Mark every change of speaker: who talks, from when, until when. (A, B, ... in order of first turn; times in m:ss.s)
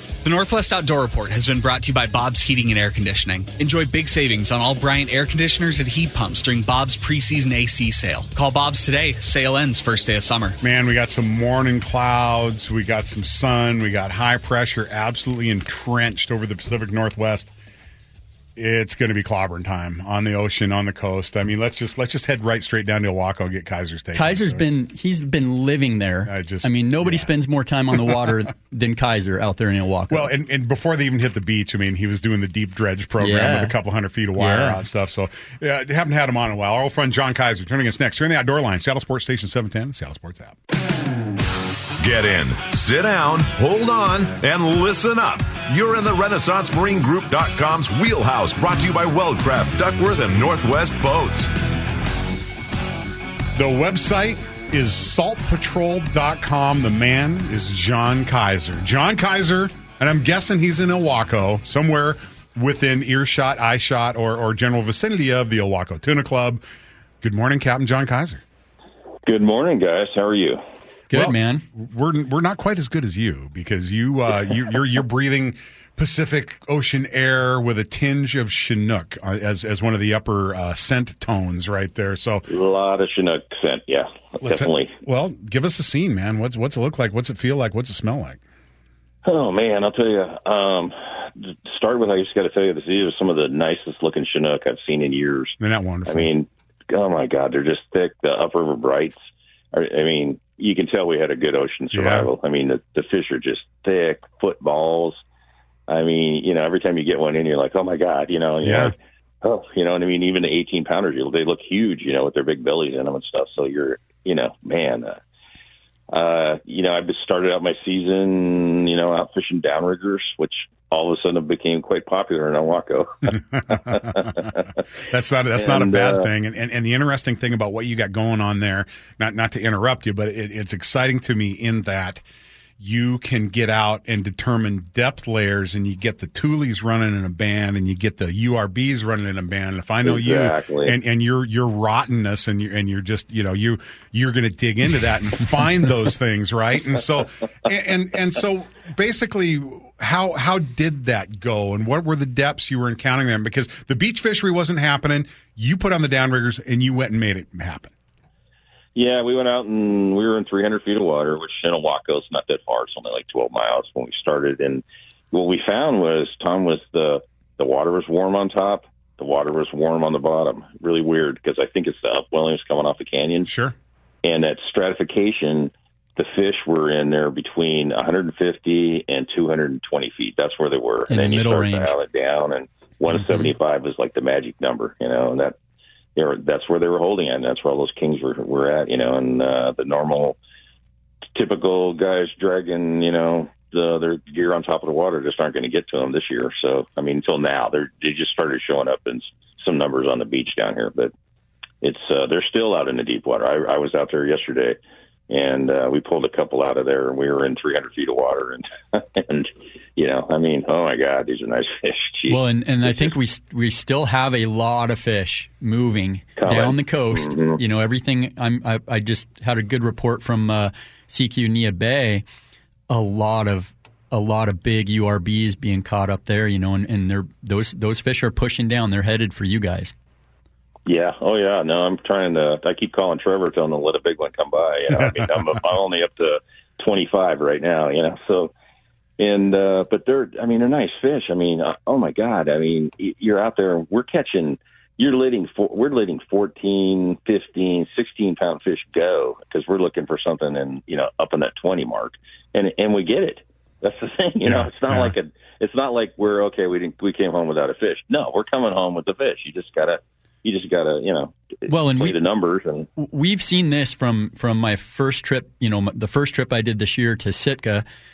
0:00.2-0:10.6 A
0:10.6-0:17.5 B
0:18.6-0:24.6 B
0:24.1-0:30.3 C
0:26.2-0:27.3 B
0:30.1-0:40.6 B
0:33.2-0:33.8 C
0:34.4-0:34.8 C
0:42.0-0:51.5 D
0:53.6-1:06.6 B
1:07.2-1:08.4 B
1:09.2-1:10.6 E
1:11.1-1:11.6 C
1:11.1-1:22.5 B
1:22.5-1:24.9 E
1:24.4-1:28.4 B
1:29.2-1:35.5 E
1:35.6-1:36.3 B
1:36.1-1:39.2 E
1:39.7-1:45.2 E
1:41.9-1:42.3 B
1:45.9-1:55.2 E
1:48.6-1:48.9 B
1:56.1-2:04.7 E
2:03.3-2:04.5 B
2:05.1-2:12.2 B
2:05.6-2:06.3 E
2:12.8-2:37.9 B
2:20.0-2:21.0 E
2:38.9-2:53.5 E
2:53.4-2:53.7 B
2:54.2-3:05.6 E
3:01.1-3:01.9 C
3:06.2-3:10.4 E
3:11.3-3:21.1 E
3:21.8-3:24.8 E
3:25.3-3:33.0 E
3:32.3-3:42.2 C
3:36.4-3:37.6 E
3:42.9-3:49.9 C
3:50.8-3:58.5 E
3:59.2-4:21.4 E
4:14.4-4:15.1 B
4:21.7-4:22.2 C
4:21.9-4:22.9 E
4:23.0-4:27.8 C